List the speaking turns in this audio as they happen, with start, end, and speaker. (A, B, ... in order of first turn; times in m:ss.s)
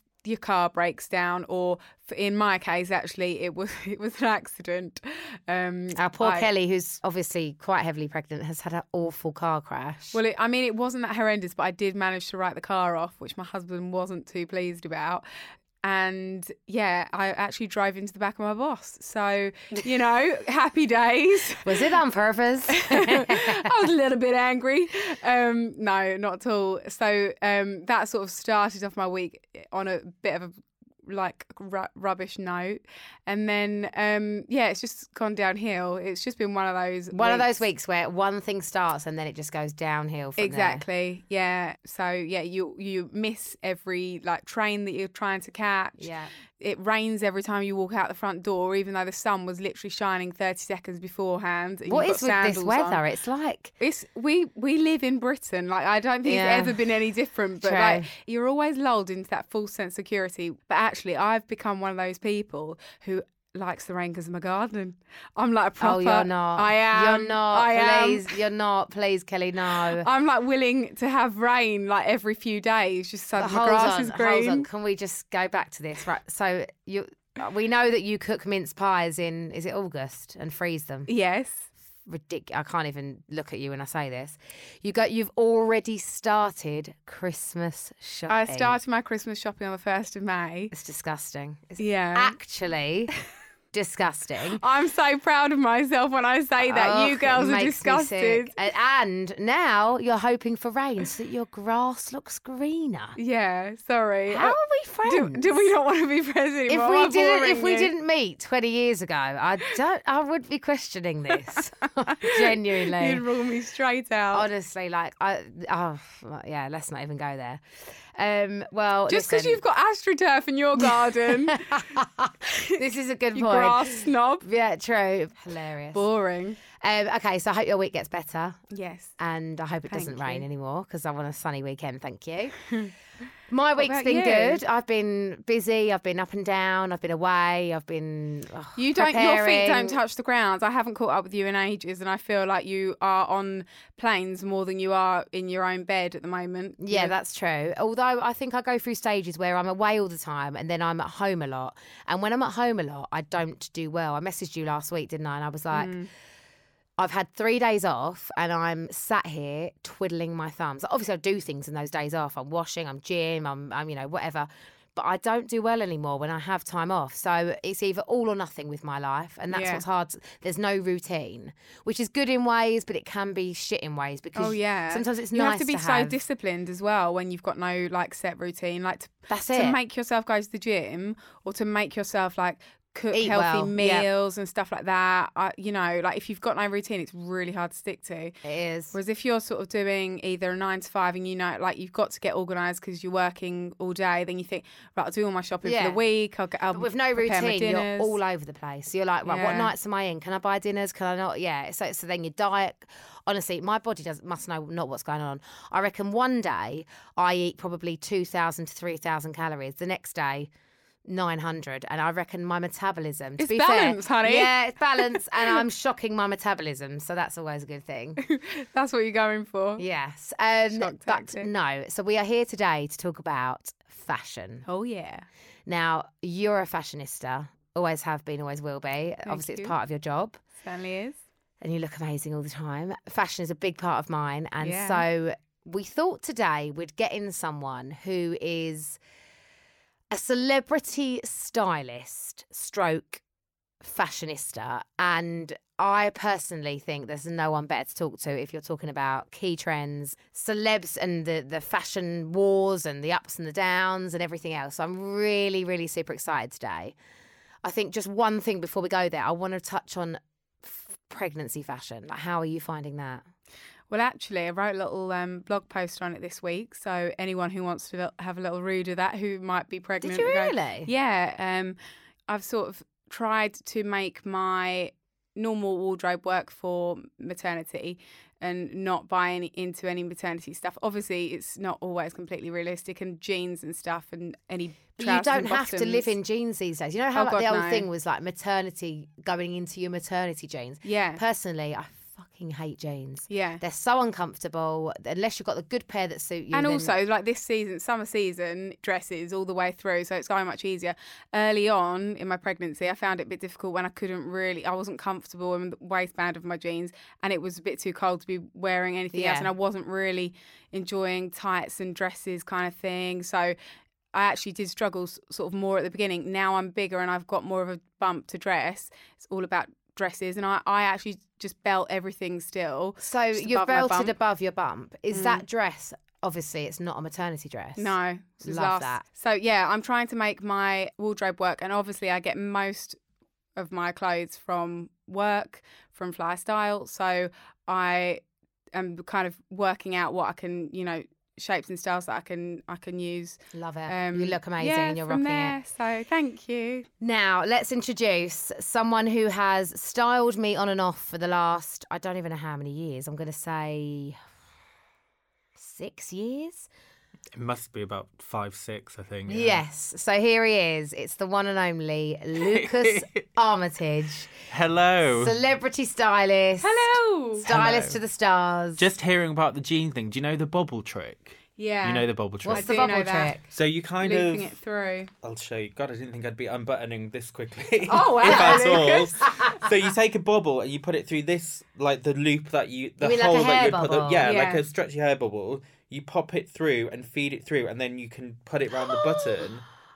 0:00.2-0:06.5 A
0:06.0-0:10.2 B
0:10.1-0:15.2 A
0:15.8-0:21.9 A
0:21.6-0:23.7 B
0:22.7-0:30.5 A
0:31.0-0:37.6 A
0:37.1-0:40.8 B
0:40.4-0:46.1 A
0:46.0-0:46.3 B
0:46.6-0:53.0 A
0:51.9-0:53.7 B
0:53.8-1:08.4 A
0:56.3-0:56.9 B
0:57.6-0:58.1 B
1:05.8-1:10.1 B
1:09.9-1:14.7 A
1:13.4-1:21.1 B
1:21.1-1:21.7 A
1:22.1-1:28.8 B
1:28.3-1:30.7 A
1:30.7-1:33.1 B
1:31.8-1:32.4 A
1:33.7-1:34.6 B
1:34.6-1:38.5 A
1:36.6-1:43.2 B
1:43.2-1:47.9 A
1:44.3-1:45.6 B
1:46.7-1:53.2 B
1:51.5-1:54.5 A
1:54.3-1:59.6 B
1:59.1-2:01.9 A
2:00.8-2:06.0 B
2:02.4-2:02.8 A
2:03.4-2:04.5 A
2:05.9-2:06.6 A
2:06.8-2:08.6 B
2:08.7-2:09.1 A
2:09.2-2:12.6 B
2:09.9-2:10.4 A
2:13.5-2:20.0 B
2:13.8-2:14.6 A
2:18.8-2:27.1 A
2:26.8-2:36.0 B
2:35.7-2:36.1 A
2:37.0-2:56.2 B
2:49.5-2:49.8 A
2:54.4-3:08.3 A
2:59.3-2:59.8 B
3:03.1-3:04.1 B
3:08.4-3:09.0 B
3:08.9-3:18.2 A
3:15.6-3:16.0 B
3:16.7-3:30.5 B
3:19.2-3:19.7 A
3:31.1-3:38.2 B
3:33.4-3:35.3 A
3:38.2-3:39.8 A
3:39.8-3:44.6 B
3:40.7-3:41.5 A
3:44.6-3:45.3 A
3:45.7-3:50.4 B
3:49.2-3:49.8 A
3:50.6-3:51.2 A
3:51.6-3:59.0 B
3:54.6-3:55.0 A
4:00.1-4:03.2 B
4:03.8-4:17.0 B
4:17.6-4:23.2 B
4:23.9-4:31.8 A
4:30.0-4:30.9 B
4:32.3-4:46.1 A
4:45.0-4:56.9 B
4:47.1-4:47.9 A
4:50.8-4:51.2 A
4:53.3-4:53.6 A
4:56.5-5:13.6 A
5:09.1-5:09.5 B
5:14.1-5:24.1 A
5:23.0-5:29.0 B
5:25.1-5:25.4 A
5:27.8-5:33.0 A
5:33.6-5:38.2 A
5:38.7-5:46.9 A
5:43.5-5:45.6 B
5:47.0-5:54.2 B
5:55.6-5:56.7 B
5:57.4-5:59.6 C
5:59.3-6:04.3 B
6:02.4-6:03.2 C
6:04.5-6:05.4 C
6:05.1-6:08.8 B
6:06.6-6:07.5 A
6:07.5-6:08.0 C
6:08.8-6:12.9 C
6:11.6-6:13.4 A
6:12.4-6:13.4 B
6:13.5-6:14.6 C
6:14.0-6:15.1 A
6:15.2-6:29.6 C
6:17.9-6:19.2 A
6:18.3-6:18.8 B
6:23.0-6:24.3 B
6:24.2-6:24.6 A